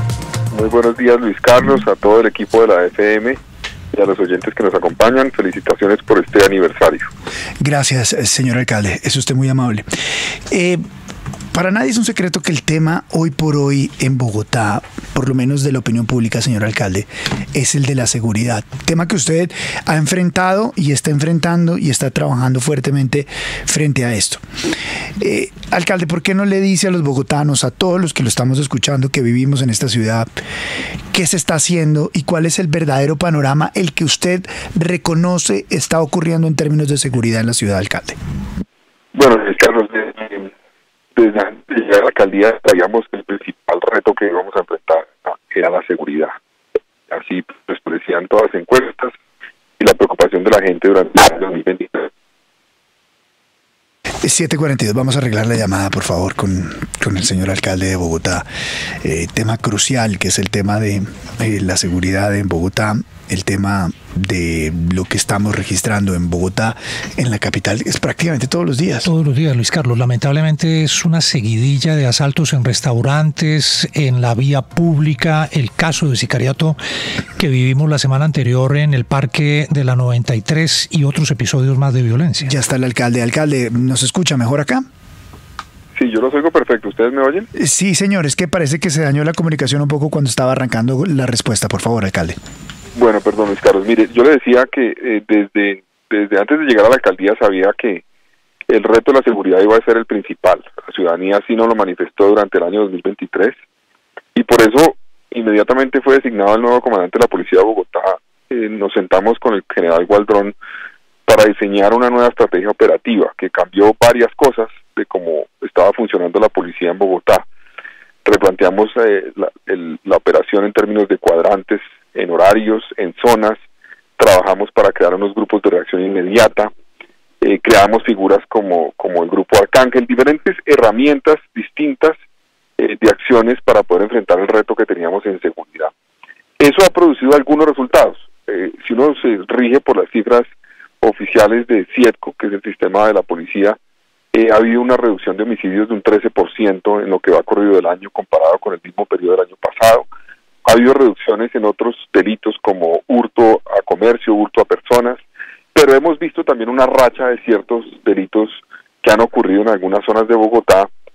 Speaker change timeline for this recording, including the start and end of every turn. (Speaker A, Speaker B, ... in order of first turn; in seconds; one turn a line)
Speaker A: 0.5-3.4
Speaker A: 3.9-7.1
Speaker B: 7.6-9.9
Speaker B: 10.5-10.8
Speaker B: 11.5-24.4
Speaker B: 25.2-30.3
Speaker B: 31.1-38.2
Speaker A: 39.1-40.5
Speaker A: 41.2-46.3
Speaker A: 47.1-49.1
Speaker A: 49.8-52.1
Speaker B: 54.2-58.5
Speaker B: 59.0-69.1
Speaker C: 69.0-76.8
Speaker C: 77.4-82.5
Speaker B: 82.4-84.8
Speaker A: 86.0-87.5
Speaker B: 87.6-92.4
Speaker A: 93.0-98.0
Speaker A: 98.7-103.5
Speaker A: 104.3-110.5
Speaker A: 111.3-117.5
Speaker A: 118.2-123.6
Speaker A: 124.2-126.7
Speaker A: 127.4-132.2
Speaker A: 132.8-135.9
Speaker A: 136.6-140.5
Speaker A: 141.0-143.8
Speaker A: 144.3-150.1
Speaker A: 150.7-155.2
Speaker A: 155.7-160.9